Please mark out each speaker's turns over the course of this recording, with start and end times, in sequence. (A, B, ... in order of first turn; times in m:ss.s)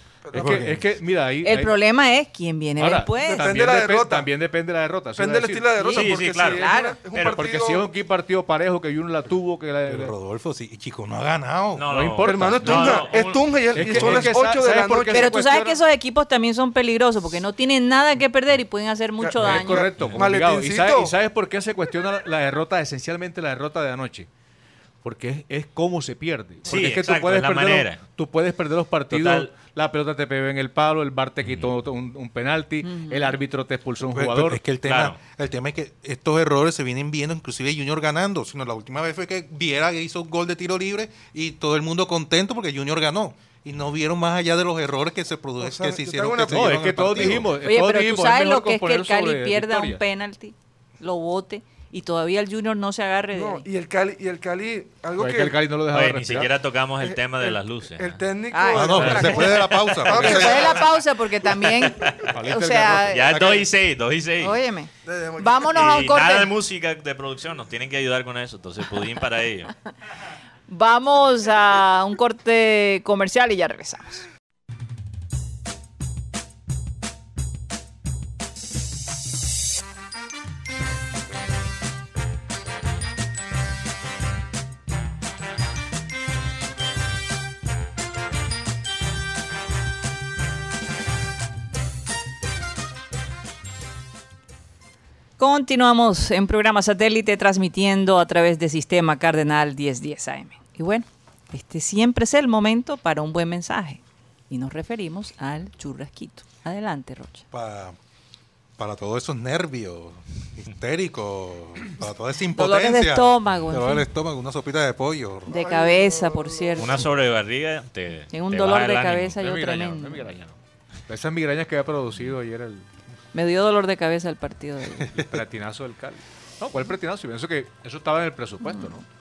0:00.2-0:00.6 A
0:00.3-0:01.7 B
0:00.3-0:00.9 C
0:01.4-0:03.6 D
0:02.8-0:05.9 B
0:03.2-0:04.3 A
0:05.1-0:07.9 A
0:05.8-0:07.0 D
0:05.9-0:07.4 E
0:07.2-0:10.1 B
0:09.8-0:12.9 C
0:11.7-0:14.3 E
0:11.9-0:13.1 B
0:12.2-0:15.3 A
0:13.7-0:15.8 B
0:15.1-0:19.9 D
0:19.2-0:21.1 A
0:19.4-0:24.3 B
0:25.0-0:34.6 B
0:26.6-0:28.0 E
0:29.1-0:29.5 E
0:31.4-0:31.7 E
0:32.8-0:33.4 D
0:34.1-0:47.5 C
0:34.8-0:35.2 E
0:45.6-0:47.4 A
0:46.5-0:50.0 B
0:47.6-0:53.6 D
0:53.3-0:55.6 A
0:55.2-0:56.5 B
0:55.9-0:58.2 E
0:57.1-1:00.8 A
0:58.5-1:03.3 D
0:58.7-1:00.8 C
0:58.8-0:59.3 B
0:59.6-1:00.4 E
1:01.6-1:02.3 E
1:02.3-1:03.2 B
1:03.1-1:04.6 E
1:03.3-1:03.7 C
1:04.4-1:06.5 D
1:05.0-1:05.9 A
1:05.7-1:09.8 E
1:10.7-1:14.2 D
1:35.4-1:47.4 D
1:47.5-1:48.0 C
1:48.8-1:55.6 C
1:52.5-1:54.1 D
1:55.5-1:57.0 D
1:55.5-1:57.0 A
1:56.8-1:59.4 E
1:58.3-2:00.4 D
1:59.4-2:02.8 B
2:03.3-2:05.1 D
2:05.1-2:05.4 C
2:05.1-2:09.0 B
2:08.6-2:08.9 D